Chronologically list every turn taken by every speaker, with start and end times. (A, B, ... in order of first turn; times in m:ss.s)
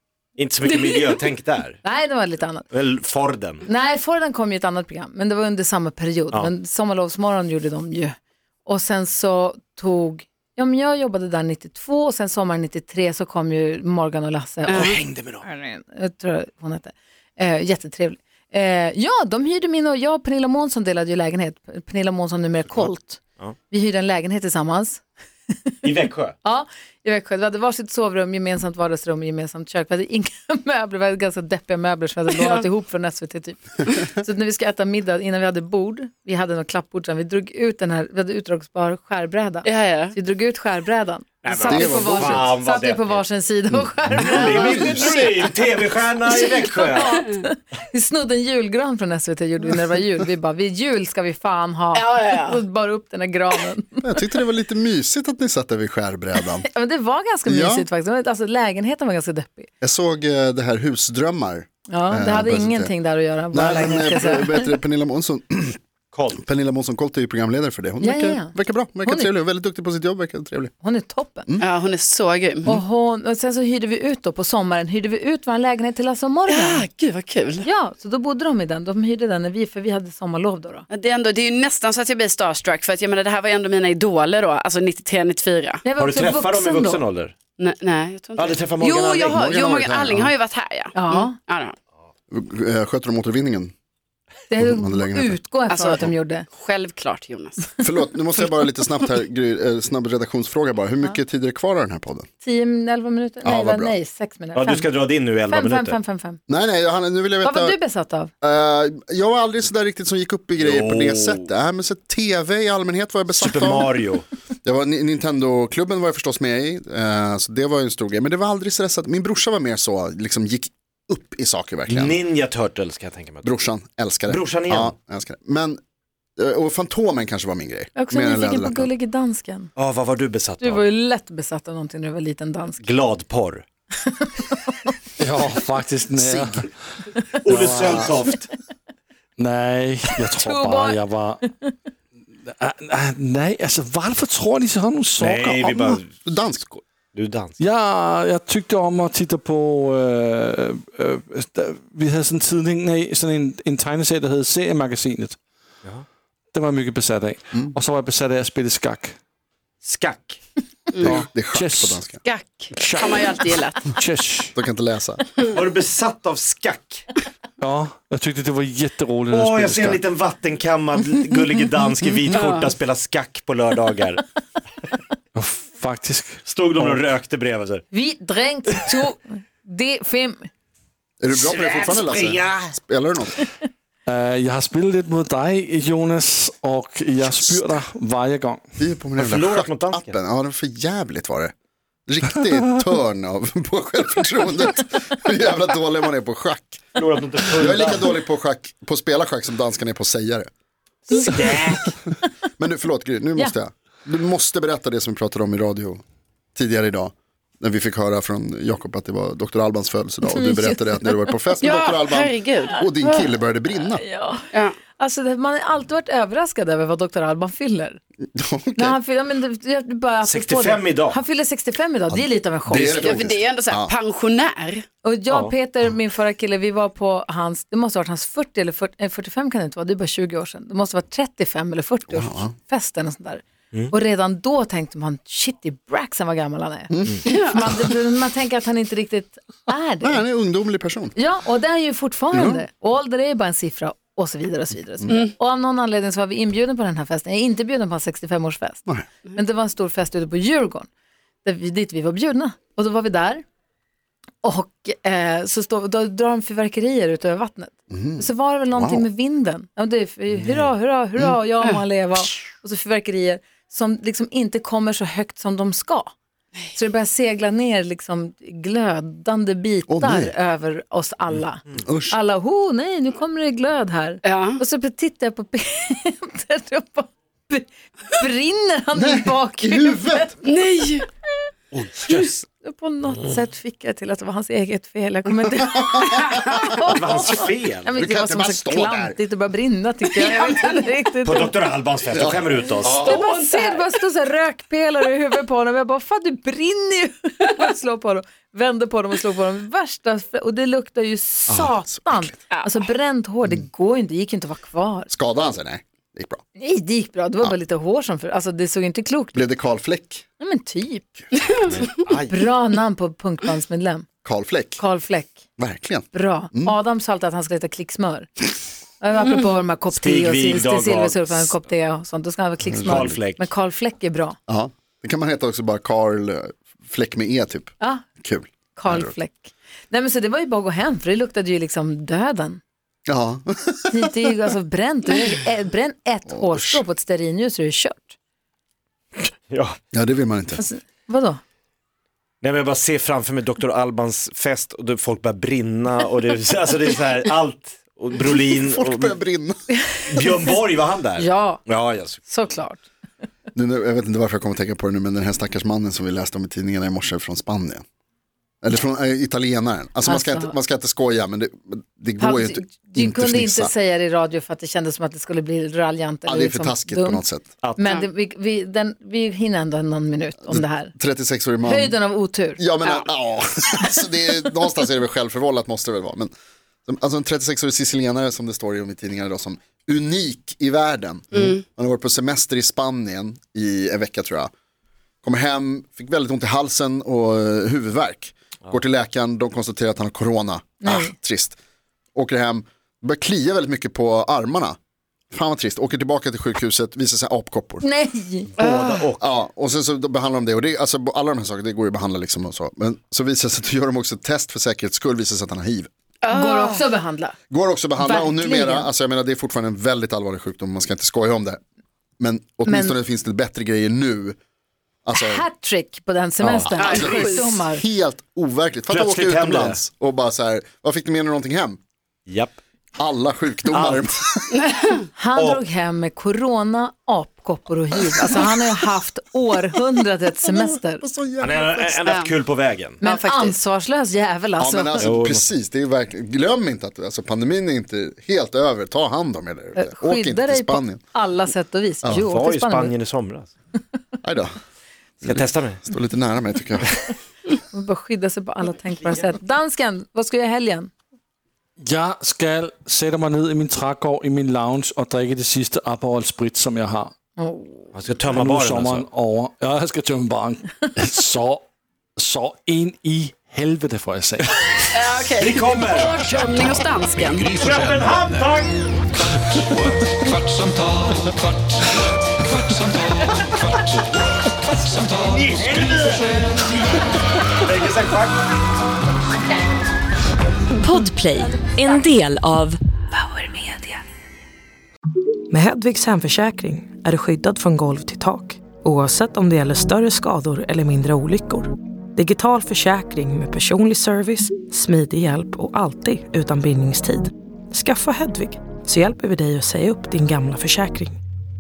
0:00.4-0:01.8 A
0:01.8-0:02.7 B
0:02.7-0:03.6 A
0:03.6-0:25.8 B
0:14.7-0:15.0 C
0:14.7-0:15.4 A
0:25.8-0:26.4 A
0:26.4-0:45.5 B
0:32.3-0:32.6 C
0:39.6-0:40.1 C
0:41.4-0:43.2 A
0:41.5-0:42.5 D
0:43.7-0:45.1 D
0:44.2-0:47.2 A
0:46.3-0:54.0 B
0:51.9-0:52.6 C
0:54.0-0:56.7 D
0:56.4-0:59.7 B
0:57.4-0:57.8 D
0:59.8-1:02.9 D
1:01.9-1:04.7 B
1:03.5-1:05.8 D
1:06.1-1:06.4 A
1:06.4-1:10.7 D
1:08.0-1:09.3 B
1:10.8-1:11.5 B
1:11.6-1:12.7 C
1:12.6-1:16.8 B
1:16.5-1:17.7 C
1:17.6-1:20.9 B
1:20.9-1:25.8 C
1:25.8-1:27.0 B
1:26.0-1:27.3 A
1:27.6-1:31.7 C
1:28.4-1:29.4 A
1:29.3-1:30.3 D
1:30.9-1:31.4 B
1:32.3-1:33.7 D
1:34.5-1:36.5 B
1:34.6-1:35.4 D
1:35.7-1:37.7 C
1:37.8-1:42.3 D
1:42.4-1:44.9 B
1:43.4-1:43.9 D
1:44.5-1:46.0 A
1:45.4-1:46.4 B
1:46.5-1:47.8 D
1:47.4-1:48.3 B
1:48.4-1:53.9 D
1:50.6-1:51.5 A
1:53.3-1:54.2 A
1:54.6-2:02.2 D
2:01.9-2:03.5 A
2:03.4-2:05.8 D
2:04.3-2:04.9 A
2:06.4-2:08.9 D
2:08.0-2:09.7 B
2:09.8-2:10.8 A
2:10.6-2:12.8 B
2:12.8-2:13.6 A
2:14.0-2:14.9 B
2:15.2-2:16.7 E
2:16.2-2:16.7 D
2:17.4-2:18.5 A
2:17.5-2:18.2 E
2:19.4-2:21.4 E
2:20.3-2:21.0 B
2:22.4-2:25.9 E
2:25.2-2:27.5 A
2:25.8-2:26.6 D
2:27.6-2:35.4 E
2:36.5-2:39.2 E
2:39.8-2:40.4 A
2:40.9-2:41.2 C
2:41.0-2:42.0 E
2:41.0-2:42.2 D
2:42.2-2:43.9 C
2:42.7-2:44.5 E
2:44.5-2:45.2 D
2:45.5-2:47.1 A
2:47.6-2:50.0 E
2:49.3-2:54.2 A
2:55.3-2:57.0 E
2:56.5-2:57.8 A
2:57.9-3:00.5 B
3:01.2-3:03.4 D
3:01.3-3:02.8 A
3:04.1-3:08.6 E
3:07.2-3:07.8 D
3:08.8-3:11.5 D
3:09.2-3:10.2 A
3:12.1-3:16.9 D
3:17.0-3:18.2 A
3:17.6-3:20.5 D
3:21.1-3:21.9 A
3:21.1-3:21.7 B
3:22.6-3:26.0 D
3:26.5-3:34.0 D
3:30.3-3:31.4 B
3:31.6-3:33.3 C
3:33.9-3:38.0 B
3:38.3-3:39.0 D
3:38.8-3:43.2 B
3:40.2-3:41.2 A
3:42.1-3:43.9 D
3:42.8-3:44.8 C
3:45.0-4:00.2 B
3:52.1-3:52.5 D
3:56.9-3:57.2 D
3:57.3-3:57.6 C
4:00.0-4:01.1 D
4:01.2-4:10.9 B
4:02.3-4:02.6 D
4:11.4-4:13.4 B
4:14.4-4:26.1 B
4:17.9-4:19.0 D
4:26.7-4:40.3 B
4:29.9-4:30.3 D
4:31.8-4:32.2 D
4:34.2-4:34.6 C
4:38.9-4:40.4 D
4:40.4-4:41.0 C
4:41.7-4:42.4 A
4:42.6-4:51.5 B
4:45.7-4:46.6 D
4:46.8-4:48.0 A
4:48.0-4:49.2 D
4:50.1-4:50.8 C
4:51.2-4:53.0 A
4:52.1-4:53.2 D
4:52.8-4:53.8 C
4:53.0-5:05.1 B
5:01.5-5:02.3 D
5:05.1-5:06.4 D
5:06.6-5:09.4 B
5:09.3-5:10.2 D
5:10.4-5:11.2 B
5:11.4-5:11.8 C
5:11.6-5:12.3 A
5:12.3-5:14.1 B
5:14.2-5:14.8 D
5:14.8-5:15.4 B
5:15.6-5:16.8 D
5:16.1-5:18.5 B
5:19.0-5:24.4 B
5:19.9-5:21.5 A
5:22.6-5:23.2 D
5:22.8-5:23.5 A
5:24.5-5:29.1 D
5:28.7-5:32.6 B
5:33.1-5:34.1 D
5:33.9-5:38.2 B
5:36.3-5:36.8 D
5:39.2-5:39.8 A
5:39.9-5:40.6 D
5:40.6-5:41.4 B
5:42.4-5:49.1 A
5:48.5-5:49.6 D
5:50.1-5:52.2 A
5:51.2-5:51.6 B
5:52.2-5:52.9 B
5:53.5-5:57.8 D
5:58.6-6:03.7 D
6:00.0-6:00.5 B
6:02.2-6:07.2 B
6:06.2-6:07.5 D
6:07.6-6:07.9 A
6:07.8-6:10.9 B
6:10.5-6:12.0 D
6:11.6-6:12.6 B
6:12.6-6:16.3 D
6:16.8-6:24.5 D
6:21.4-6:21.6 C
6:25.2-6:31.6 D
6:30.8-6:31.1 B
6:32.1-6:34.8 D
6:35.3-6:37.8 D
6:37.8-6:38.5 B
6:38.6-6:39.3 A
6:38.6-6:39.1 C
6:39.2-6:45.9 D
6:46.2-6:46.8 C
6:46.3-6:47.4 B
6:47.5-6:51.6 D
6:48.0-6:48.9 B
6:52.2-6:54.4 D
6:52.6-6:53.0 B
6:55.0-6:55.4 D
6:55.1-6:57.8 B
6:56.4-6:57.3 A
6:56.8-6:57.5 C
6:56.9-7:01.8 D
6:58.9-6:59.8 A
7:02.3-7:02.6 A
7:03.0-7:04.5 D
7:03.7-7:04.1 A
7:04.6-7:05.0 C
7:05.2-7:11.0 B
7:10.4-7:11.9 D
7:11.4-7:13.0 A
7:12.1-7:12.3 C
7:13.0-7:15.1 B
7:13.0-7:13.5 C
7:14.6-7:21.0 D
7:15.0-7:15.5 A
7:19.8-7:23.0 B
7:22.1-7:23.5 A
7:24.2-7:24.5 D
7:25.2-7:26.0 A
7:25.2-7:27.0 D
7:27.7-7:30.9 B
7:31.8-7:37.1 E
7:37.4-7:37.9 B
7:37.9-7:39.1 A
7:38.3-7:41.6 E
7:42.2-7:45.0 E
7:44.9-7:47.5 C
7:45.4-7:46.1 A
7:46.4-7:48.6 F
7:47.6-7:48.8 A
7:49.7-7:51.0 F
7:54.9-7:56.7 A
7:57.6-7:58.4 A
8:00.8-8:03.9 G
8:05.5-8:21.2 H